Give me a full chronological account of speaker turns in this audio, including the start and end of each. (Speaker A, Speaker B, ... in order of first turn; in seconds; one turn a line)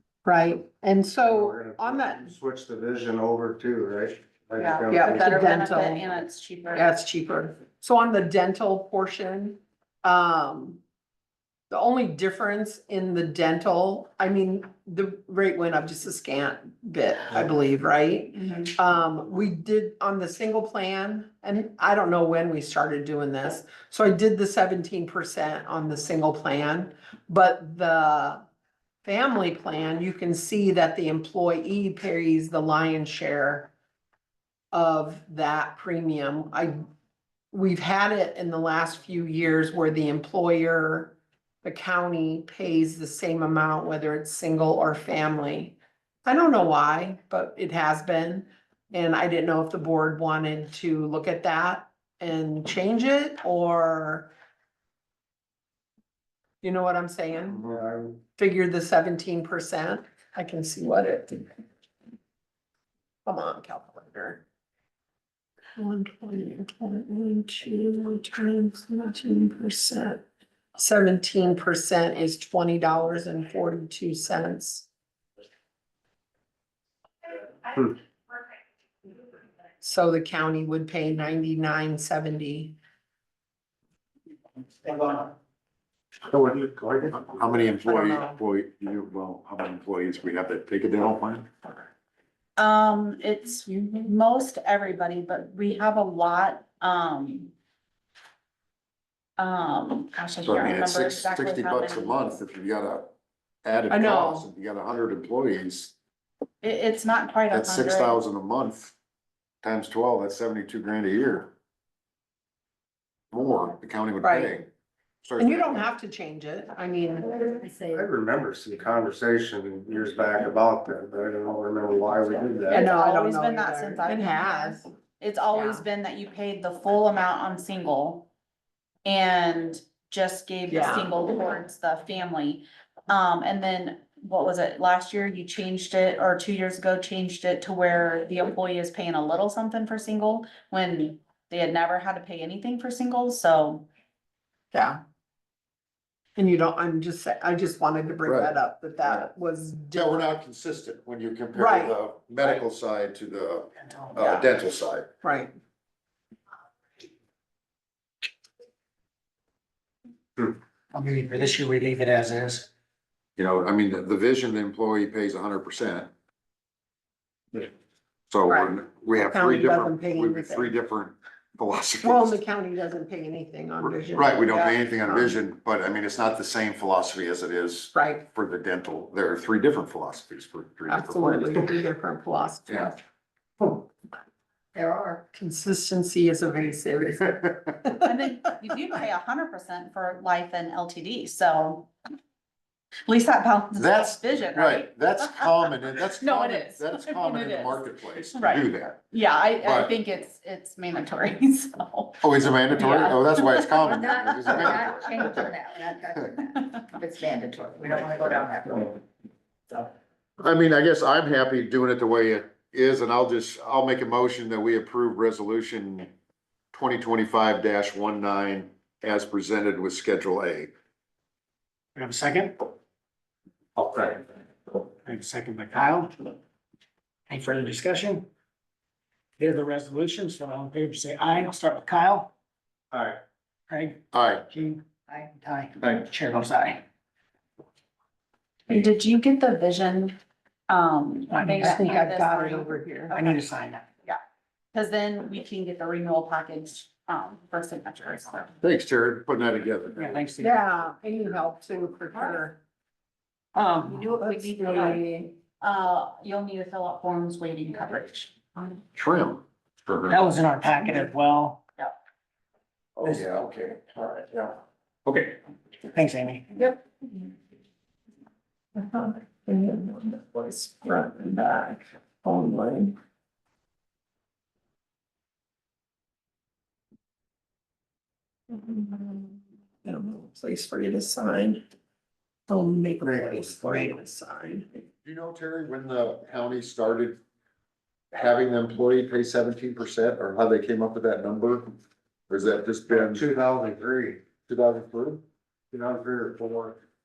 Speaker A: 0.2-2.3
Speaker B: 1.2-5.2
Speaker C: 4.6-6.9
Speaker A: 4.9-6.1
Speaker A: 6.7-10.8
Speaker A: 11.7-28.4
Speaker C: 18.4-18.7
Speaker A: 29.0-33.7
Speaker A: 34.7-36.8
Speaker A: 37.5-54.3
Speaker A: 56.6-57.6
Speaker B: 57.5-58.2
Speaker A: 58.4-61.5
Speaker A: 63.2-64.4
Speaker A: 65.8-70.2
Speaker A: 70.8-74.9
Speaker A: 79.8-82.8
Speaker B: 86.3-87.3
Speaker D: 87.1-91.5
Speaker A: 87.8-88.4
Speaker C: 92.6-97.5
Speaker C: 99.4-102.2
Speaker D: 100.4-103.1
Speaker D: 103.6-105.9
Speaker A: 103.9-104.5
Speaker C: 106.6-108.2
Speaker D: 107.5-108.9
Speaker D: 109.6-111.5
Speaker D: 113.3-114.7
Speaker A: 114.2-114.6
Speaker D: 115.2-115.8
Speaker A: 115.4-117.7
Speaker E: 117.5-117.9
Speaker B: 117.9-122.8
Speaker A: 122.7-124.9
Speaker C: 122.7-128.3
Speaker A: 125.5-125.8
Speaker C: 129.0-143.8
Speaker A: 130.7-131.2
Speaker A: 144.7-145.0
Speaker A: 146.3-150.3
Speaker D: 148.2-148.5
Speaker D: 149.9-155.1
Speaker A: 151.5-151.9
Speaker A: 155.2-155.5
Speaker F: 160.9-162.7
Speaker D: 163.4-166.1
Speaker D: 168.3-172.4
Speaker A: 168.5-170.7
Speaker A: 172.0-175.3
Speaker D: 174.1-181.6
Speaker A: 177.9-178.2
Speaker A: 180.9-182.9
Speaker D: 182.7-182.9
Speaker A: 184.7-188.1
Speaker C: 188.0-191.9
Speaker C: 193.1-205.3
Speaker D: 193.8-199.0
Speaker D: 199.6-199.9
Speaker D: 202.2-205.4
Speaker E: 203.8-209.0
Speaker D: 210.4-216.1
Speaker D: 216.7-220.7
Speaker F: 221.9-222.7
Speaker B: 223.8-224.2
Speaker F: 225.0-226.1
Speaker F: 227.3-228.3
Speaker F: 229.4-232.3
Speaker B: 232.9-233.2
Speaker F: 233.7-236.8
Speaker D: 234.1-234.4
Speaker C: 238.7-240.2
Speaker C: 240.7-243.4
Speaker F: 241.3-242.0
Speaker A: 241.6-243.2
Speaker F: 243.1-243.8
Speaker C: 244.7-248.5
Speaker D: 248.6-250.1
Speaker F: 249.9-250.5
Speaker A: 250.4-252.6
Speaker F: 253.6-254.0
Speaker E: 253.8-255.0
Speaker A: 254.1-255.3
Speaker C: 254.7-255.0
Speaker C: 255.6-258.4
Speaker D: 258.9-260.2
Speaker F: 260.1-261.6
Speaker D: 263.0-265.4
Speaker F: 265.9-266.4
Speaker A: 268.8-272.9
Speaker A: 278.5-281.6
Speaker A: 282.5-284.8
Speaker B: 283.0-283.7
Speaker D: 285.0-287.2
Speaker D: 288.1-291.7
Speaker D: 292.3-293.2
Speaker B: 292.9-294.2
Speaker D: 294.4-295.2
Speaker B: 295.7-296.8